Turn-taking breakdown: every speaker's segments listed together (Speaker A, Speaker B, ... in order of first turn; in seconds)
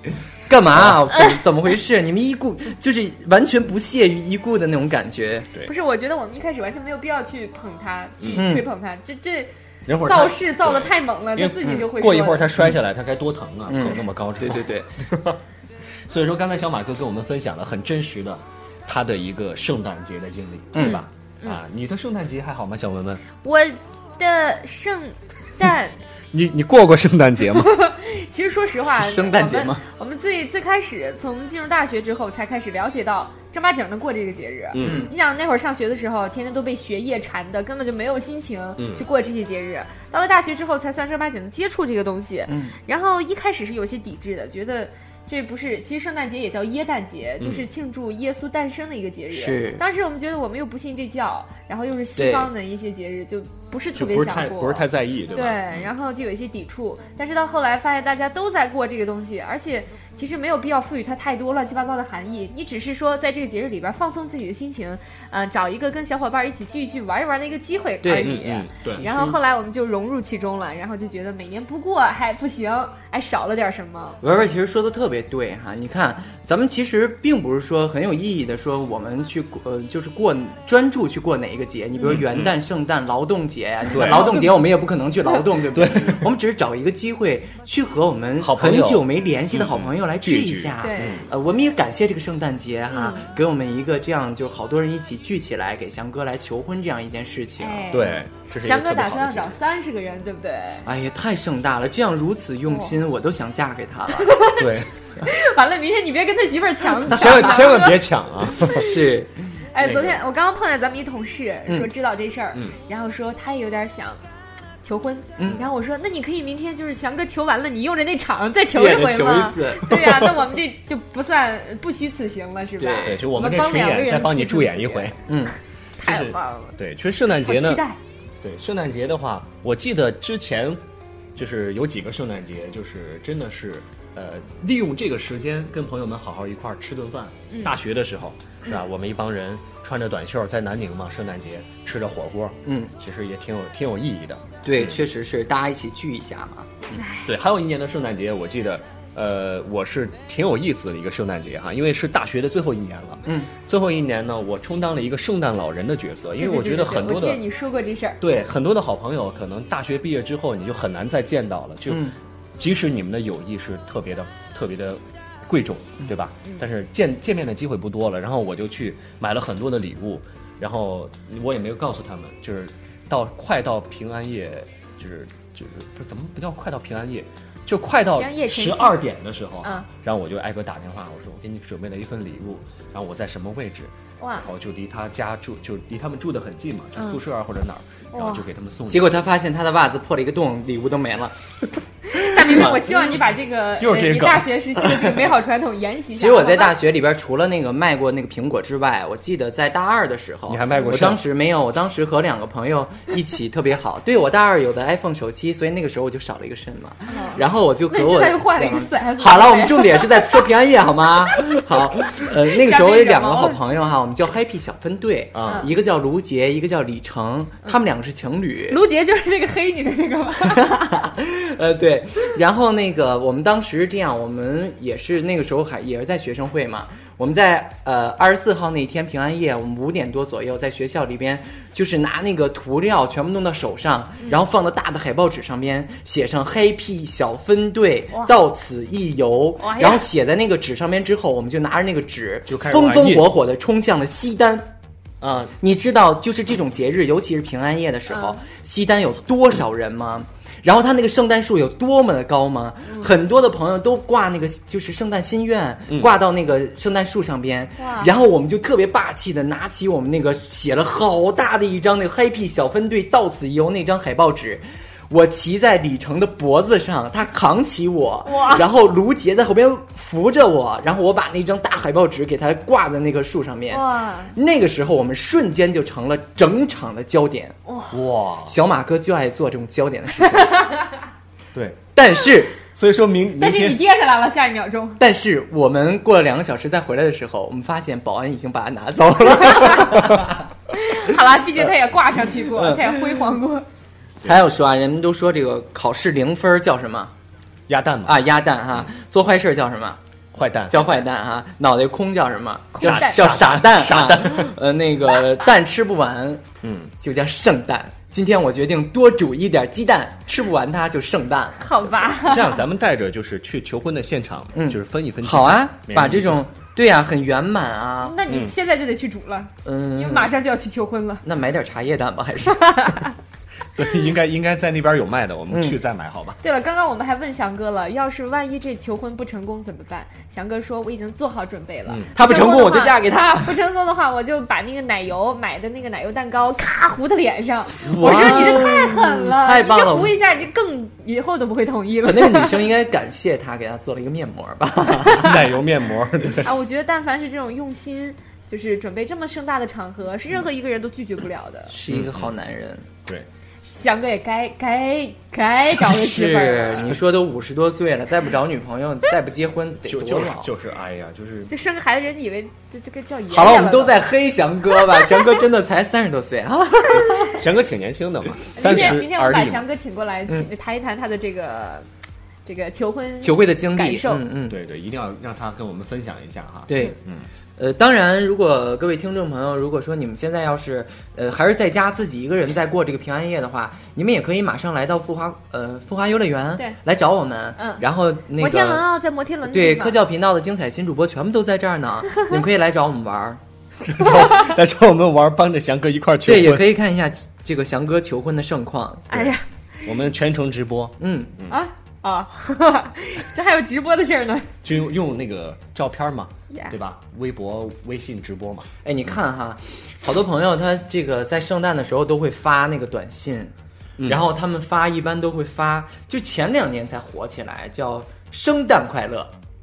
Speaker A: 0.5-5.5, 8.3-8.7, 11.6-11.9, 13.7-14.9, 20.7-21.0, 28.8-29.8, 34.8-35.1, 42.5-42.8, 49.3-49.8, 52.1-52.5, 68.0-69.4, 74.2-98.1, 100.8-104.5, 107.1-107.8, 108.6-109.4, 115.4-115.7, 118.7-120.2, 122.8-123.2, 125.3-125.5, 142.6-142.9, 144.6-147.0, 153.2-153.5, 161.9-162.1, 188.9-191.3, 192.2-193.2, 196.1-218.8, 220.4-244.7, 245.5-277.6, 278.4-280.8, 281.9-282.6, 285.0-290.5, 292.5-293.3, 294.2-297.1, 298.0-300.0, 300.7-306.4, 307.0-312.2, 314.5-318.2, 319.6-320.3, 321.2-322.9, 325.5-325.8, 332.1-333.6, 337.8-340.1, 342.0-345.4, 351.7-352.9, 355.6-360.5, 363.3-367.3, 368.6-369.0, 373.2-374.6, 376.7-377.0, 377.6-388.9, 389.4-393.4, 396.2-399.1, 401.0-401.3, 408.8-413.5, 414.0-419.3
Speaker B: 5.6-12.5, 20.8-21.6, 23.4-26.0, 27.6-74.2, 83.9-84.5, 90.8-91.2, 92.9-93.3, 97.6-100.9, 102.7-103.0, 104.1-108.0, 108.6-108.9, 109.7-114.2, 114.8-125.1, 126.0-126.8, 127.4-128.0, 137.5-137.8, 147.0-147.3, 156.4-158.2, 178.1-179.1, 184.2-184.5, 186.9-187.2, 188.1-188.4, 192.1-196.8, 207.1-210.4, 212.1-213.6, 215.4-215.7, 218.7-220.8, 238.1-238.3, 239.6-240.1, 248.1-248.4, 252.8-253.1, 257.8-258.1, 268.2-268.7, 273.7-274.4, 277.6-278.0, 280.3-281.0, 283.4-285.0, 290.7-293.6, 302.7-303.3, 311.6-312.6, 318.0-321.2, 322.6-323.1, 326.4-342.6, 346.4-351.7, 353.6-356.9, 361.5-364.1, 368.5-371.9, 372.4-374.2, 387.6-387.8, 388.4-390.0, 399.1-399.4, 401.5-404.5
Speaker C: 8.2-8.5, 9.8-15.4, 16.1-23.2, 26.3-27.8, 34.7-35.1, 38.8-39.0, 47.4-47.7, 53.9-55.9, 68.2-69.0, 82.0-82.5, 83.9-84.3, 85.7-86.3, 88.4-91.2, 97.9-99.6, 104.6-104.9, 107.0-108.8, 109.8-110.2, 123.0-125.2, 126.0-127.8, 128.4-130.8, 131.3-145.0, 147.2-157.4, 158.2-189.3, 193.8-194.6, 200.5-201.2, 215.3-215.7, 242.5-243.3, 245.2-245.5, 277.9-278.6, 281.5-281.8, 282.7-283.8, 289.2-290.2, 297.7-298.2, 300.3-300.9, 302.8-304.5, 306.6-306.9, 312.2-316.4, 318.3-318.5, 323.7-326.4, 337.9-338.6, 345.1-346.5, 351.9-352.3, 359.9-361.5, 367.3-369.6, 374.5-377.3, 393.8-396.6, 399.1-401.6, 404.6-408.7, 414.0-414.3